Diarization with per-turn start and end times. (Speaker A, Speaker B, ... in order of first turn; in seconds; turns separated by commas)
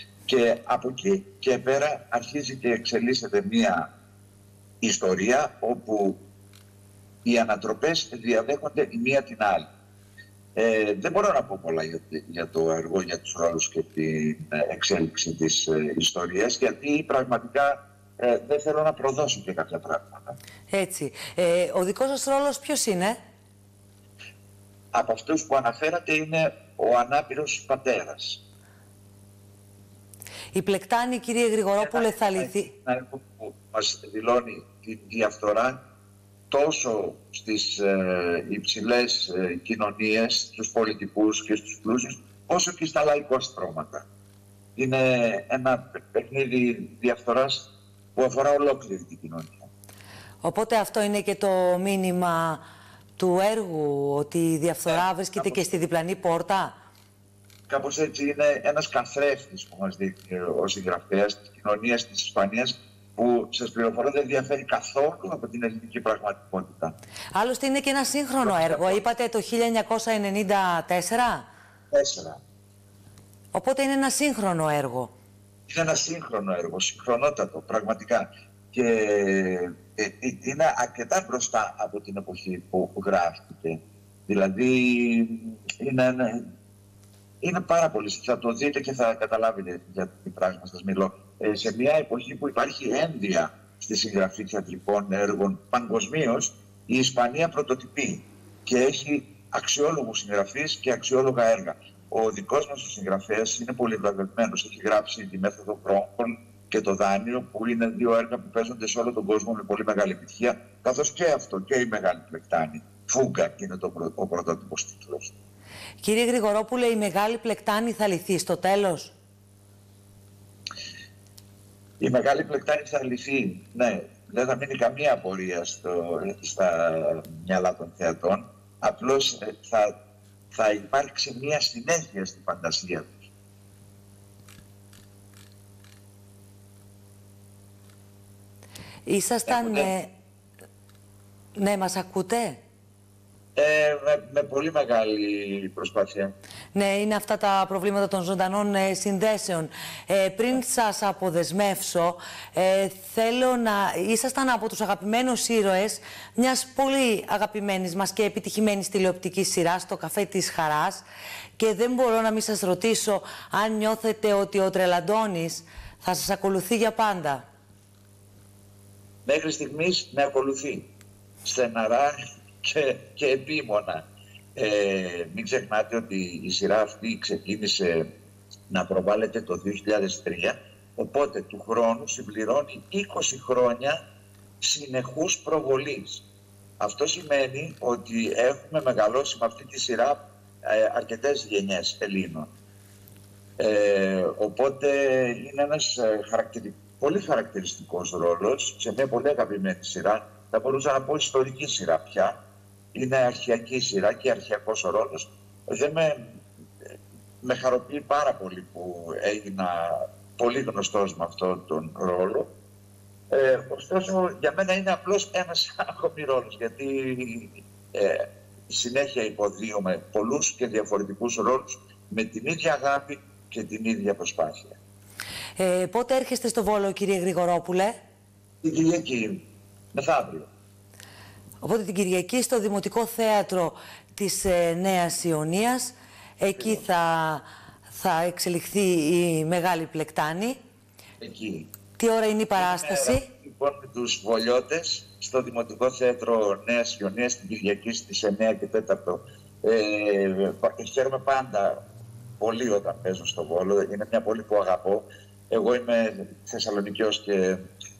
Speaker A: 0.3-3.9, Speaker A: 4.8-6.2, Speaker A: 7.2-9.7, Speaker A: 10.6-20.3, Speaker B: 20.7-23.2, Speaker A: 24.9-28.4, Speaker B: 30.5-32.7, Speaker A: 31.8-35.8, Speaker A: 36.5-44.0, Speaker A: 44.8-49.7, Speaker B: 50.4-52.6, Speaker B: 53.2-56.8, Speaker A: 54.9-55.6, Speaker A: 57.7-66.9, Speaker B: 67.3-71.5, Speaker A: 68.4-69.0, Speaker A: 71.9-72.4, Speaker B: 73.5-75.1, Speaker A: 75.7-86.5, Speaker A: 87.4-115.3, Speaker B: 116.0-119.1, Speaker A: 122.0-129.9, Speaker A: 130.5-133.2, Speaker B: 139.1-140.1, Speaker A: 139.5-139.9, Speaker B: 141.6-142.6, Speaker A: 143.6-146.3, Speaker B: 146.7-161.1, Speaker B: 161.6-167.4, Speaker A: 169.2-170.9, Speaker A: 171.4-174.0, Speaker A: 174.6-178.1, Speaker A: 178.7-184.0, Speaker A: 184.6-186.2, Speaker A: 186.8-192.5, Speaker A: 193.6-202.4, Speaker A: 202.9-206.2, Speaker A: 207.4-212.5, Speaker A: 213.3-224.8, Speaker B: 225.6-228.0, Speaker A: 228.6-229.4, Speaker A: 229.9-230.5, Speaker B: 231.6-240.6, Speaker A: 241.2-241.7, Speaker B: 242.0-243.2, Speaker A: 242.6-251.8, Speaker A: 252.4-257.6